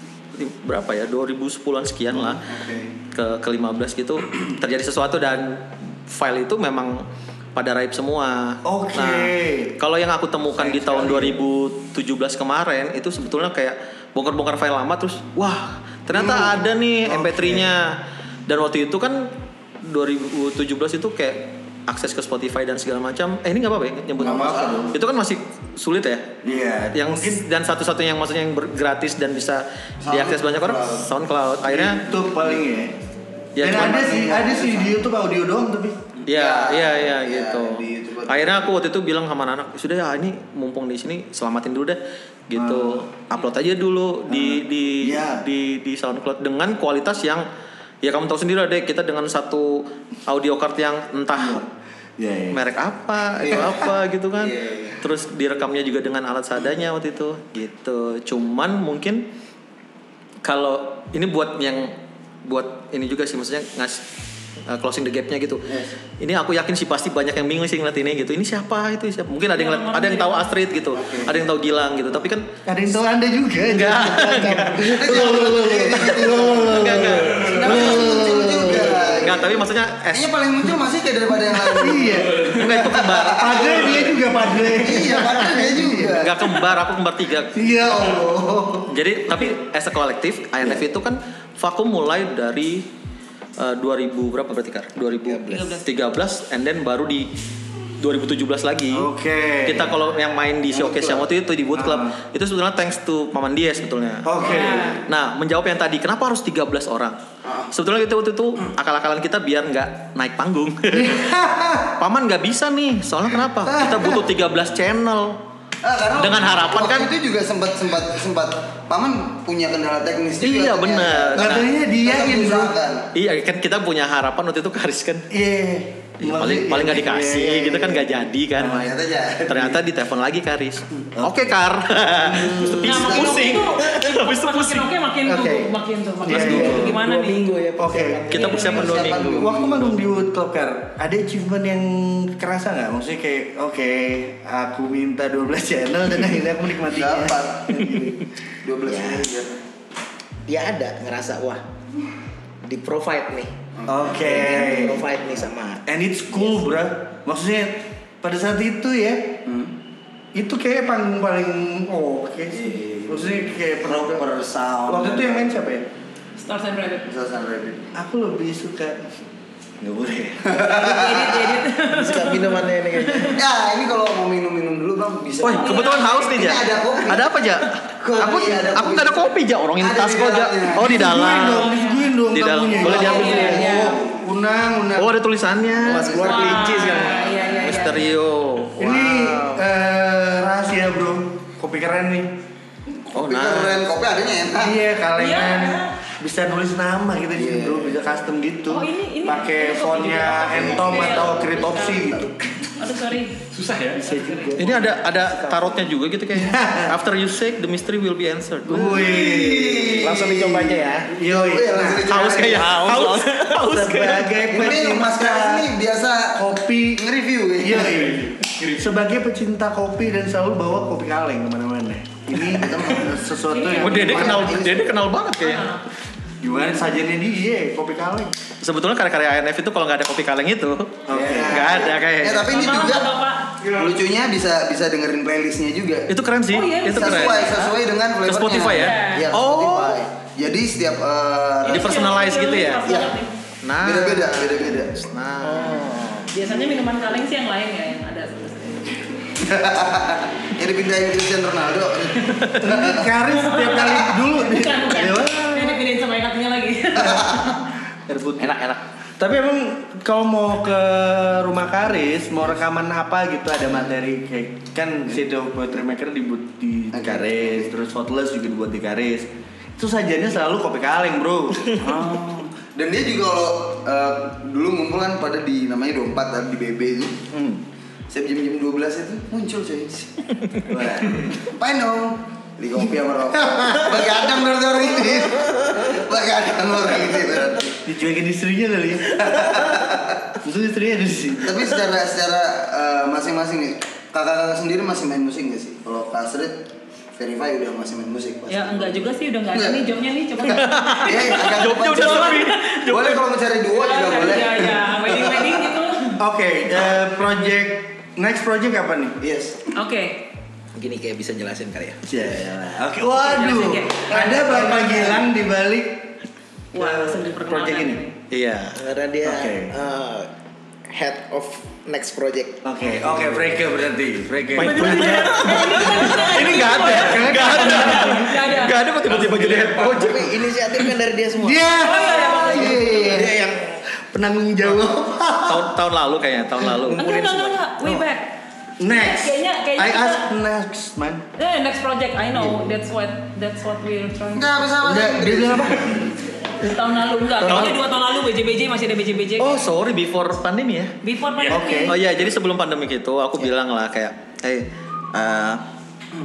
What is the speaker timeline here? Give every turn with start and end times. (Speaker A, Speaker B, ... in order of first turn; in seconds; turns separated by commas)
Speaker A: 0.3-2.4, Speaker B: 2.1-2.9, Speaker A: 3.1-19.3, Speaker B: 8.6-9.8, Speaker B: 10.5-11.4, Speaker B: 17.0-17.7, Speaker A: 19.8-26.4, Speaker C: 24.2-24.9, Speaker B: 24.2-24.9, Speaker B: 26.4-27.4, Speaker A: 26.9-32.0, Speaker C: 30.0-31.1, Speaker B: 31.6-32.9, Speaker A: 33.5-34.2, Speaker B: 33.6-36.1, Speaker C: 33.8-34.9, Speaker C: 36.2-38.7, Speaker A: 36.2-47.4, Speaker B: 42.5-43.0, Speaker B: 44.3-45.4, Speaker A: 48.0-51.6, Speaker B: 51.3-51.6, Speaker B: 52.2-52.6, Speaker A: 52.5-59.2, Speaker C: 53.5-53.7, Speaker C: 54.4-55.0, Speaker A: 60.4-64.0, Speaker A: 64.6-65.7, Speaker C: 65.7-65.9, Speaker A: 66.2-72.5, Speaker D: 69.5-70.5, Speaker C: 70.9-71.3, Speaker B: 72.7-79.3, Speaker A: 73.7-75.2, Speaker C: 74.8-86.5, Speaker A: 76.6-80.3, Speaker B: 81.7-82.5, Speaker E: 82.1-82.5, Speaker A: 82.5-83.8, Speaker B: 83.2-86.2, Speaker A: 86.1-87.7, Speaker B: 87.5-88.8, Speaker C: 87.6-88.8, Speaker A: 88.9-92.9, Speaker A: 93.6-97.3, Speaker F: 95.2-95.8, Speaker D: 95.5-95.8, Speaker A: 98.0-99.1, Speaker B: 98.9-100.0, Speaker A: 99.6-107.2, Speaker C: 100.7-101.2, Speaker B: 101.7-102.1, Speaker B: 104.2-105.0, Speaker D: 104.4-105.0, Speaker C: 107.4-107.7, Speaker A: 107.7-111.2, Speaker B: 110.9-112.0, Speaker A: 112.0-115.4, Speaker B: 113.6-114.2, Speaker C: 115.8-123.1, Speaker A: 116.2-117.1, Speaker A: 120.4-121.7, Speaker B: 121.3-122.7, Speaker A: 123.1-125.3, Speaker B: 125.3-128.9, Speaker A: 126.2-128.8, Speaker C: 128.7-129.7, Speaker A: 129.5-134.9, Speaker B: 131.1-131.5, Speaker B: 132.0-132.8, Speaker C: 132.3-133.7, Speaker D: 132.8-137.5, Speaker B: 135.2-135.7, Speaker B: 136.2-136.9, Speaker A: 136.2-136.9, Speaker F: 136.3-138.8, Speaker B: 137.8-138.3, Speaker A: 138.3-139.3, Speaker D: 138.4-138.7, Speaker C: 138.6-140.1, Speaker B: 138.9-148.2, Speaker C: 146.9-149.6, Speaker F: 148.8-149.3, Speaker F: 150.5-151.6, Speaker F: 152.6-153.5, Speaker C: 153.8-154.3, Speaker B: 153.9-155.1, Speaker F: 154.1-155.8, Speaker B: 155.8-159.4, Speaker C: 159.4-159.7, Speaker B: 160.3-164.3, Speaker C: 162.5-165.4, Speaker B: 164.8-165.9, Speaker D: 166.4-167.1, Speaker C: 167.1-167.9, Speaker B: 167.9-169.1, Speaker B: 169.8-170.6, Speaker C: 170.4-171.6, Speaker D: 170.7-173.4, Speaker F: 171.8-173.4, Speaker C: 173.3-177.3, Speaker A: 175.4-181.7, Speaker D: 175.5-176.6, Speaker C: 178.0-179.3, Speaker C: 179.8-181.0, Speaker B: 180.8-185.1, Speaker D: 181.5-182.1, Speaker A: 182.3-183.6, Speaker C: 182.7-184.3, Speaker D: 182.9-184.0, Speaker A: 184.9-187.1, Speaker C: 185.8-187.4, Speaker F: 185.8-187.4, Speaker D: 186.2-188.1, Speaker A: 187.6-189.6, Speaker B: 188.8-192.3, Speaker C: 193.1-194.8, Speaker A: 193.1-193.8, Speaker B: 194.6-202.4, Speaker D: 195.2-195.9, Speaker C: 197.3-198.0, Speaker D: 198.7-202.2, Speaker C: 200.5-202.3, Speaker D: 202.8-203.5, Speaker E: 203.5-204.4, Speaker B: 203.9-204.9, Speaker D: 204.1-204.6, Speaker A: 204.6-208.9, Speaker F: 205.4-205.7, Speaker B: 206.3-206.9, Speaker B: 208.7-212.3, Speaker C: 208.8-210.3, Speaker F: 210.0-211.1, Speaker C: 211.2-212.8, Speaker A: 212.0-214.5, Speaker F: 212.5-213.6, Speaker B: 213.5-215.7, Speaker C: 214.5-218.1, Speaker B: 216.3-217.1, Speaker B: 217.6-224.6, Speaker E: 218.4-218.8, Speaker C: 222.4-223.2, Speaker D: 223.5-224.4, Speaker A: 223.8-225.8, Speaker C: 224.0-224.9, Speaker D: 225.4-225.8, Speaker B: 226.4-228.3, Speaker A: 228.6-232.7, Speaker B: 231.1-231.9, Speaker C: 231.2-233.1, Speaker D: 232.4-233.6, Speaker B: 233.6-233.9, Speaker C: 233.6-236.1, Speaker A: 236.1-240.0, Speaker D: 236.5-237.6, Speaker C: 236.9-242.1, Speaker D: 238.6-239.3, Speaker A: 241.6-242.9, Speaker D: 241.6-243.3, Speaker C: 242.8-243.1, Speaker A: 243.6-246.0, Speaker C: 243.8-245.0, Speaker F: 245.4-246.3, Speaker D: 246.3-249.0, Speaker C: 249.4-253.1, Speaker B: 252.6-255.8, Speaker D: 253.3-257.5, Speaker C: 256.9-257.6, Speaker B: 258.1-258.6, Speaker F: 258.4-258.8, Speaker B: 259.2-272.5, Speaker C: 266.9-267.7, Speaker C: 271.9-277.2, Speaker B: 277.3-277.6, Speaker C: 278.1-280.3, Speaker B: 280.7-281.3, Speaker C: 281.1-287.8, Speaker B: 283.5-284.1, Speaker B: 287.8-289.9, Speaker C: 289.2-290.2, Speaker B: 290.4-291.7, Speaker C: 291.4-299.8, Speaker D: 298.5-302.3, Speaker C: 300.5-305.7, Speaker A: 300.5-303.3, Speaker D: 303.7-306.2, Speaker B: 306.2-309.2, Speaker C: 309.2-309.7, Speaker D: 309.7-310.2, Speaker F: 310.7-312.0, Speaker B: 312.0-316.1, Speaker D: 313.2-315.1, Speaker D: 316.7-318.1, Speaker B: 316.7-318.0, Speaker A: 318.3-318.8, Speaker F: 318.7-320.3, Speaker B: 319.2-319.7, Speaker F: 320.9-322.6, Speaker B: 322.6-328.5, Speaker A: 324.5-330.3, Speaker D: 324.6-328.8, Speaker E: 329.2-329.7, Speaker F: 329.8-333.6, Speaker B: 331.4-335.8, Speaker D: 331.8-333.1, Speaker A: 335.4-337.4, Speaker D: 336.9-338.3, Speaker B: 338.8-341.2, Speaker D: 338.9-340.3, Speaker D: 341.4-344.6, Speaker C: 344.3-346.0, Speaker B: 344.8-346.1, Speaker D: 346.6-349.6, Speaker A: 347.4-347.9, Speaker A: 349.4-350.9, Speaker D: 351.0-351.9, Speaker B: 351.5-352.0, Speaker A: 351.9-355.6